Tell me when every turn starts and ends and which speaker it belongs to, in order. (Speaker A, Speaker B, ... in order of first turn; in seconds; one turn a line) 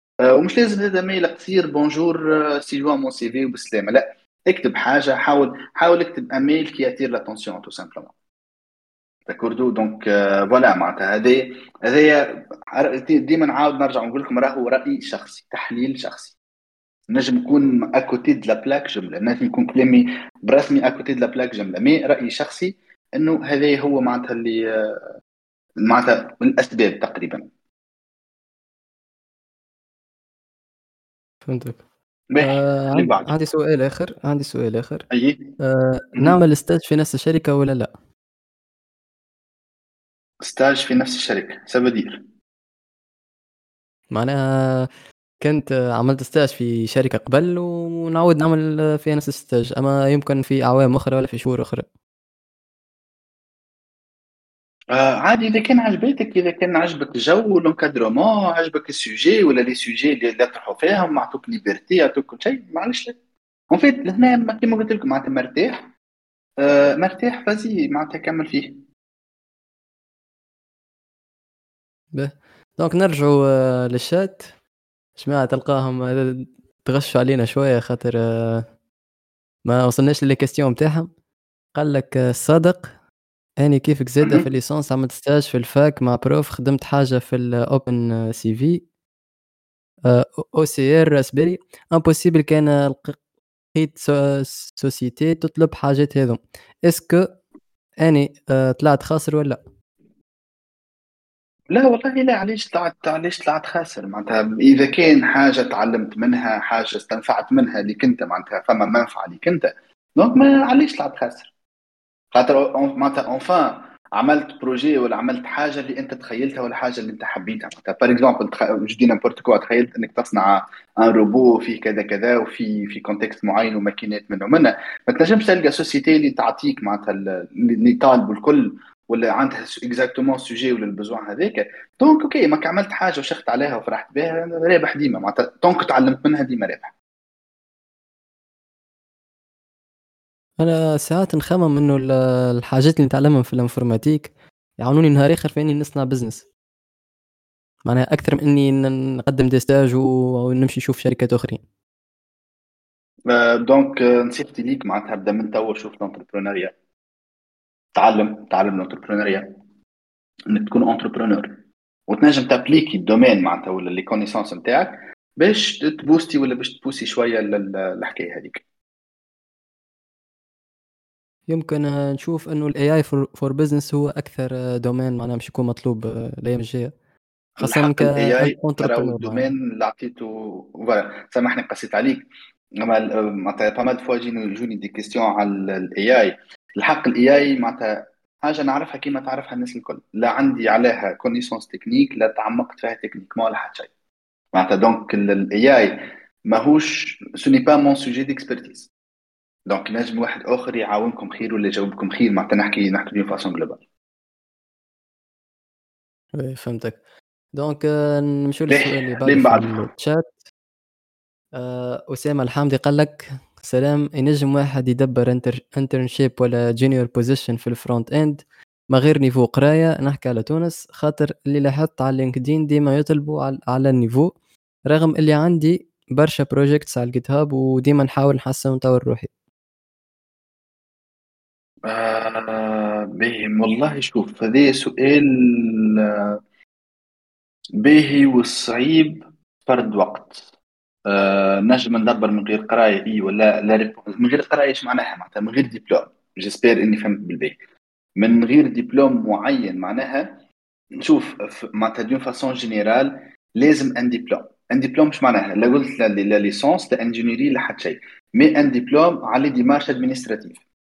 Speaker A: 0.2-8.1
Speaker A: 9.3-16.4
Speaker A: 17.1-24.6
Speaker A: 25.8-27.5
Speaker B: 31.4-31.8
Speaker A: 32.3-33.3
Speaker B: 32.4-35.1
Speaker A: 35.1-35.5
Speaker B: 35.6-37.9
Speaker A: 40.4-42.2
Speaker B: 44.1-44.9
Speaker B: 45.4-51.9
Speaker A: 54.9-63.2
Speaker A: 63.7-65.9
Speaker A: 66.6-68.8
Speaker B: 72.1-74.5
Speaker B: 75.2-78.7
Speaker B: 79.6-81.1
Speaker B: 81.7-82.9
Speaker B: 83.6-88.8
Speaker A: 84.2-84.5
Speaker B: 90.0-93.2
Speaker B: 93.7-97.3
Speaker B: 98.0-99.6
Speaker A: 101.7-111.5
Speaker A: 112.3-136.9
Speaker B: 140.6-146.4
Speaker B: 147.9-151.6
Speaker A: 153.3-156.7
Speaker A: 157.9-159.6
Speaker A: 160.5-168.6
Speaker B: 171.5-176.9
Speaker B: 177.6-179.5
Speaker A: 177.6-182.3
Speaker A: 182.8-193.9
Speaker A: 194.5-198.9
Speaker A: 199.7-203.8
Speaker B: 206.3-207.0
Speaker B: 207.5-210.3
Speaker A: 208.7-209.9
Speaker B: 211.5-224.3
Speaker B: 224.9-229.3
Speaker A: 231.9-236.3
Speaker A: 237.8-240.4
Speaker A: 241.1-247.6
Speaker A: 248.2-250.4
Speaker A: 251.0-260.6